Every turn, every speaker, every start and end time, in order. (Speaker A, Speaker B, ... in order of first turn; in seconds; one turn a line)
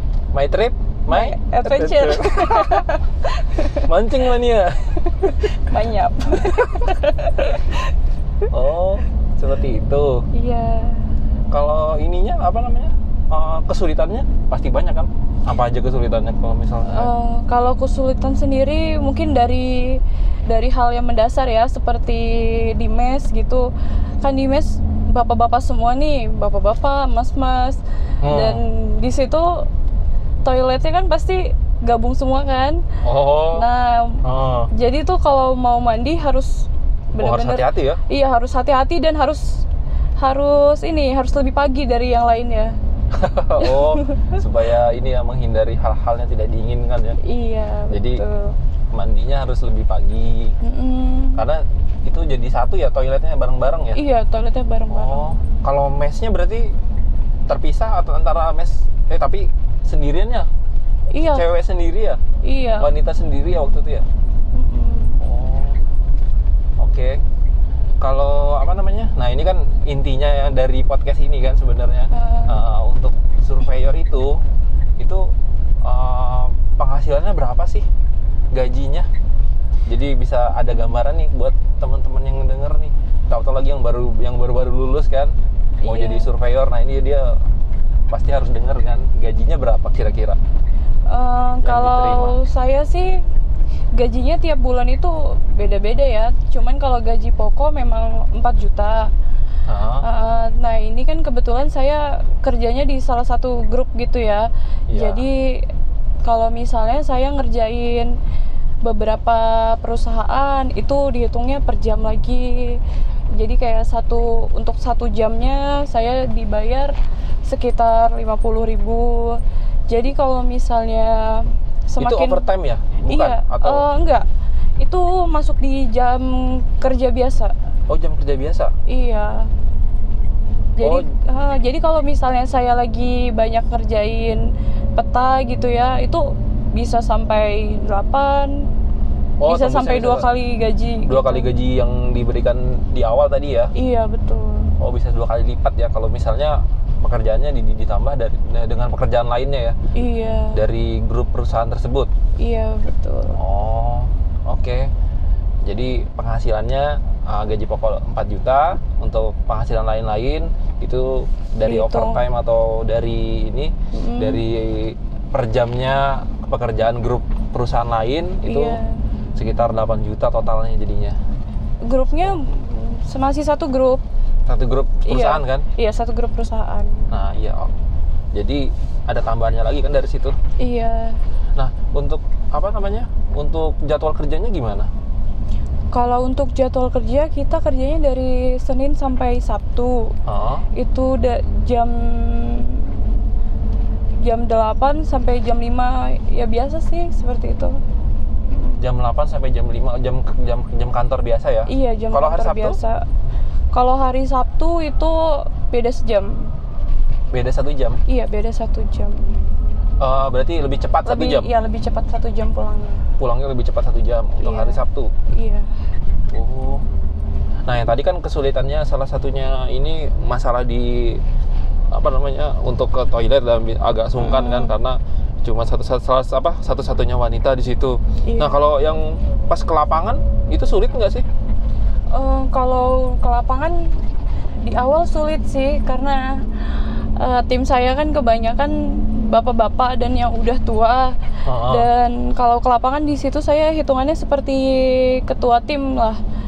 Speaker A: 0.3-2.9
Speaker B: 1.1-3.9
Speaker A: 3.7-5.4
Speaker B: 5.0-7.9
Speaker A: 6.5-6.9
Speaker A: 8.5-10.2
Speaker B: 10.3-11.1
Speaker A: 11.5-17.1
Speaker B: 16.9-23.7
Speaker B: 24.2-29.7
Speaker A: 28.2-28.6
Speaker B: 30.4-32.8
Speaker A: 33.0-33.6
Speaker B: 33.5-39.6
Speaker A: 34.2-34.7
Speaker A: 37.2-38.0
Speaker B: 40.2-42.7
Speaker A: 43.1-47.2
Speaker B: 43.6-44.4
Speaker B: 47.2-48.5
Speaker A: 47.9-48.2
Speaker A: 48.9-50.5
Speaker B: 50.6-51.4
Speaker A: 51.3-54.0
Speaker B: 53.9-55.2
Speaker A: 54.9-56.7
Speaker A: 57.5-60.5
Speaker B: 61.1-61.4
Speaker A: 61.2-62.2
Speaker B: 62.4-62.9
Speaker A: 62.8-64.0
Speaker B: 64.5-65.2
Speaker A: 65.2-65.8
Speaker A: 66.8-67.2
Speaker A: 68.0-74.4
Speaker B: 72.1-72.5
Speaker A: 75.0-75.3
Speaker A: 75.8-77.8
Speaker A: 78.5-79.1
Speaker A: 79.9-85.3
Speaker B: 85.8-86.3
Speaker A: 85.8-87.3
Speaker A: 88.1-90.4
Speaker B: 91.1-93.2
Speaker A: 91.6-92.4
Speaker B: 93.9-99.1
Speaker A: 99.7-100.1
Speaker B: 100.0-105.7
Speaker A: 104.9-105.2
Speaker B: 106.2-108.2
Speaker B: 108.8-112.8
Speaker B: 113.3-116.9
Speaker B: 117.5-122.5
Speaker A: 122.0-123.9
Speaker B: 123.0-124.3
Speaker B: 124.8-127.5
Speaker A: 127.9-128.7
Speaker B: 128.9-129.5
Speaker B: 130.8-138.7
Speaker A: 139.4-140.3
Speaker B: 139.5-141.5
Speaker A: 141.1-143.7
Speaker B: 143.7-144.7
Speaker A: 144.8-149.8
Speaker B: 149.9-150.6
Speaker A: 150.5-152.1
Speaker B: 152.4-153.4
Speaker A: 153.3-154.9
Speaker A: 155.6-168.8
Speaker B: 161.6-162.2
Speaker B: 163.9-164.4
Speaker B: 168.4-169.0
Speaker A: 169.3-171.2
Speaker B: 171.8-174.0
Speaker A: 174.5-175.7
Speaker B: 175.1-177.1
Speaker A: 177.1-177.7
Speaker A: 178.3-180.3
Speaker B: 180.6-181.2
Speaker A: 181.6-184.9
Speaker B: 185.9-190.1
Speaker A: 190.3-190.7
Speaker B: 190.7-193.1
Speaker B: 194.2-197.8
Speaker B: 198.5-198.8
Speaker A: 198.8-202.8
Speaker B: 201.7-203.0
Speaker B: 203.7-206.5
Speaker A: 207.3-208.0
Speaker B: 208.1-209.4
Speaker A: 210.0-211.5
Speaker B: 211.0-213.1
Speaker A: 213.2-215.1
Speaker B: 214.4-215.7
Speaker A: 216.3-216.8
Speaker A: 217.6-221.2
Speaker A: 221.9-231.2
Speaker B: 224.2-224.8
Speaker B: 228.3-228.6
Speaker B: 232.1-233.9
Speaker B: 234.6-246.2
Speaker A: 241.4-241.9